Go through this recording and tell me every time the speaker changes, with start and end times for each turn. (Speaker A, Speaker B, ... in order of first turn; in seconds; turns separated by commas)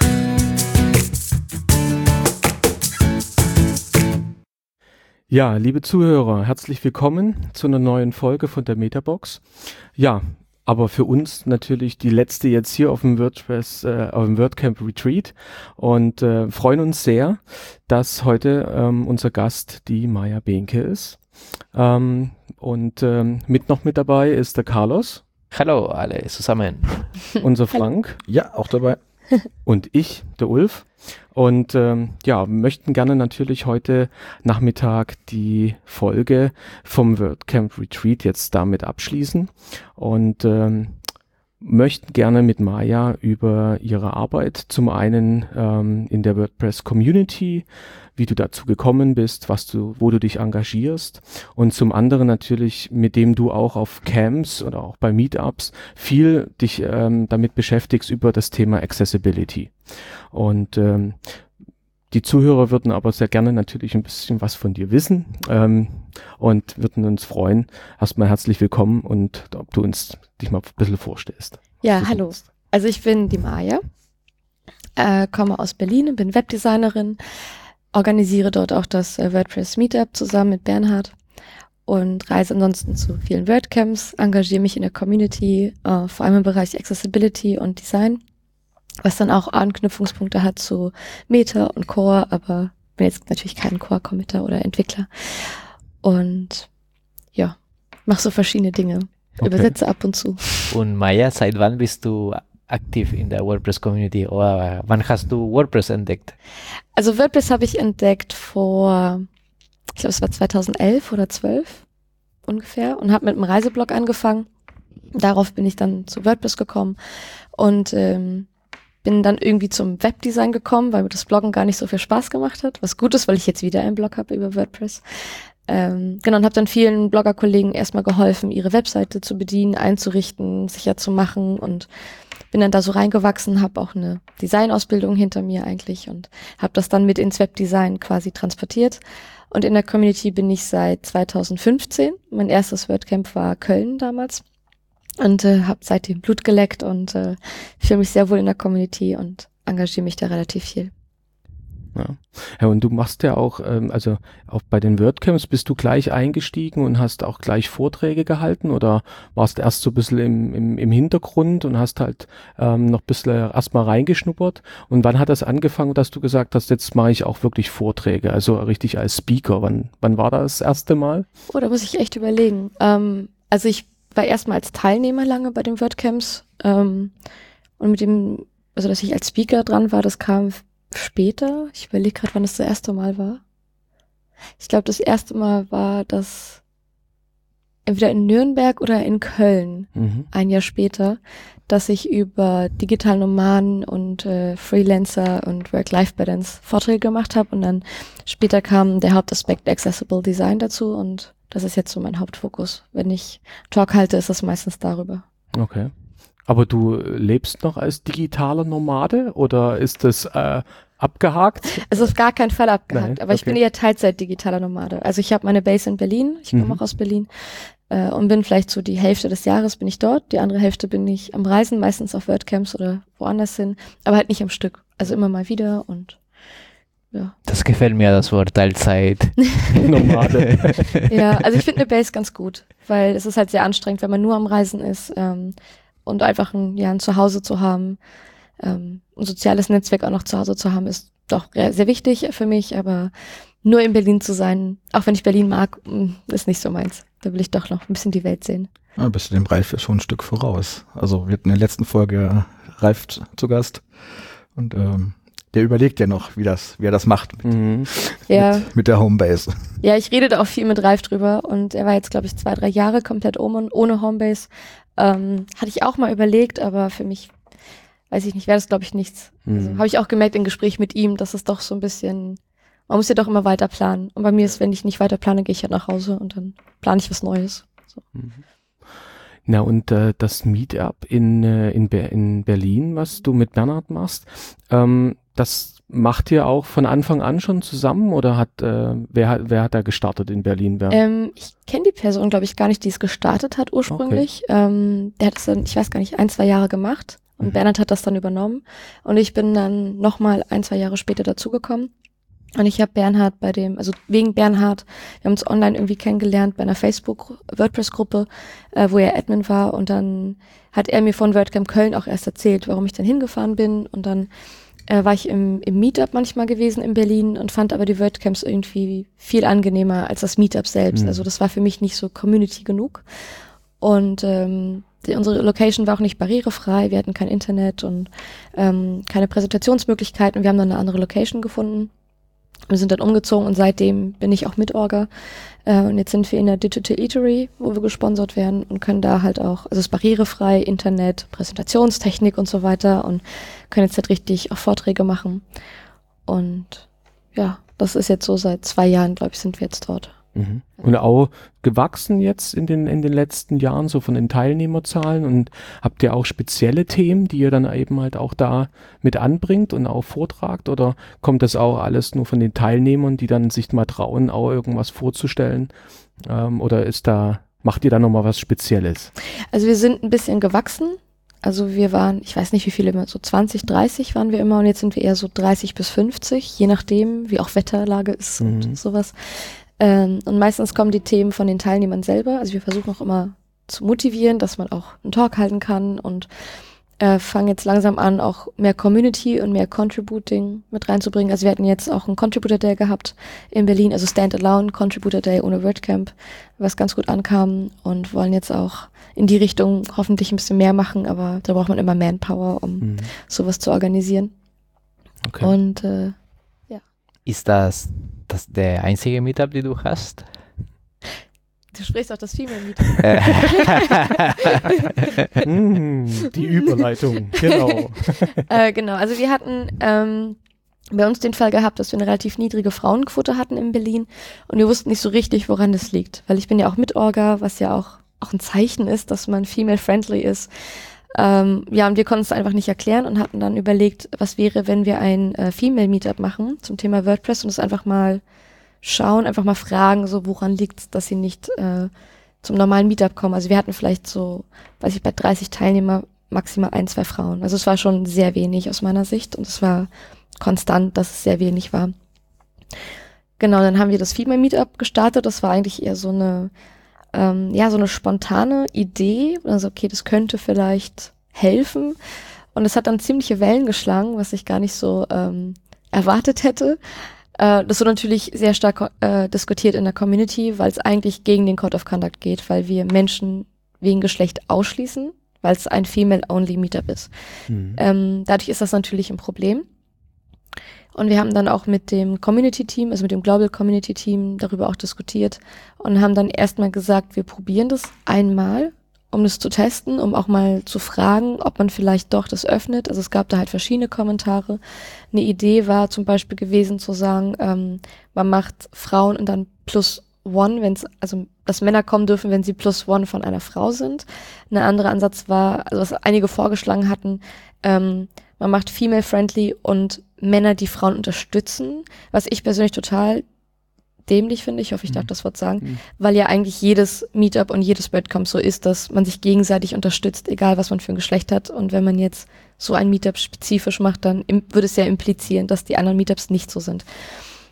Speaker A: 5.3-21.2, Speaker A: 21.7-25.2, Speaker B: 25.5-27.2, Speaker A: 27.4-28.2, Speaker C: 28.2-29.0, Speaker A: 29.6-41.0, Speaker A: 41.6-61.4, Speaker A: 62.1-72.2, Speaker D: 71.8-73.8, Speaker D: 75.0-77.2, Speaker D: 77.9-81.1, Speaker D: 81.8-88.2, Speaker D: 89.0-96.7, Speaker D: 97.3-100.7, Speaker A: 99.4-99.7, Speaker B: 100.7-106.3, Speaker D: 107.0-109.3, Speaker D: 110.0-111.8, Speaker D: 112.5-114.5, Speaker D: 115.1-117.0, Speaker D: 117.5-118.5, Speaker D: 119.0-125.0, Speaker D: 125.7-131.9, Speaker D: 132.5-139.0, Speaker D: 139.5-144.4, Speaker D: 145.2-150.9, Speaker A: 151.9-171.2, Speaker D: 171.5-177.1, Speaker D: 177.8-183.4, Speaker D: 184.6-186.6, Speaker D: 187.8-205.2, Speaker A: 189.9-190.3, Speaker A: 205.5-205.9, Speaker A: 206.4-212.1, Speaker D: 211.7-217.3, Speaker A: 212.9-213.6, Speaker A: 216.5-216.8, Speaker D: 217.9-226.2, Speaker B: 227.4-230.9, Speaker A: 229.7-231.1, Speaker D: 231.1-238.0, Speaker D: 238.6-243.1, Speaker D: 243.6-248.7, Speaker C: 249.0-253.8, Speaker C: 254.5-259.5, Speaker A: 257.4-257.9, Speaker D: 258.3-258.7, Speaker D: 259.8-267.3, Speaker D: 268.1-278.0, Speaker A: 269.4-269.8, Speaker A: 278.1-278.4, Speaker A: 279.4-291.0, Speaker D: 290.9-301.9, Speaker A: 293.9-294.2, Speaker D: 302.6-314.3, Speaker D: 314.9-323.0, Speaker A: 320.9-321.2, Speaker D: 323.8-331.9, Speaker D: 332.7-335.1, Speaker D: 335.6-345.4, Speaker D: 346.3-350.1, Speaker A: 350.3-369.1, Speaker D: 369.5-386.3, Speaker A: 378.4-378.8, Speaker D: 387.0-404.3, Speaker A: 402.8-403.1, Speaker A: 405.2-405.5, Speaker D: 405.4-406.1, Speaker B: 407.2-410.4, Speaker D: 411.7-413.8, Speaker B: 413.0-414.1, Speaker A: 415.4-418.4, Speaker D: 416.4-420.4, Speaker D: 420.9-430.5, Speaker D: 431.1-438.2, Speaker D: 438.8-441.9, Speaker D: 442.4-451.9, Speaker D: 453.4-456.5, Speaker D: 457.1-462.0, Speaker D: 462.5-466.8, Speaker D: 467.4-477.1, Speaker A: 477.5-477.8, Speaker D: 477.7-479.6, Speaker D: 480.9-494.6, Speaker D: 495.1-513.2, Speaker D: 514.0-526.8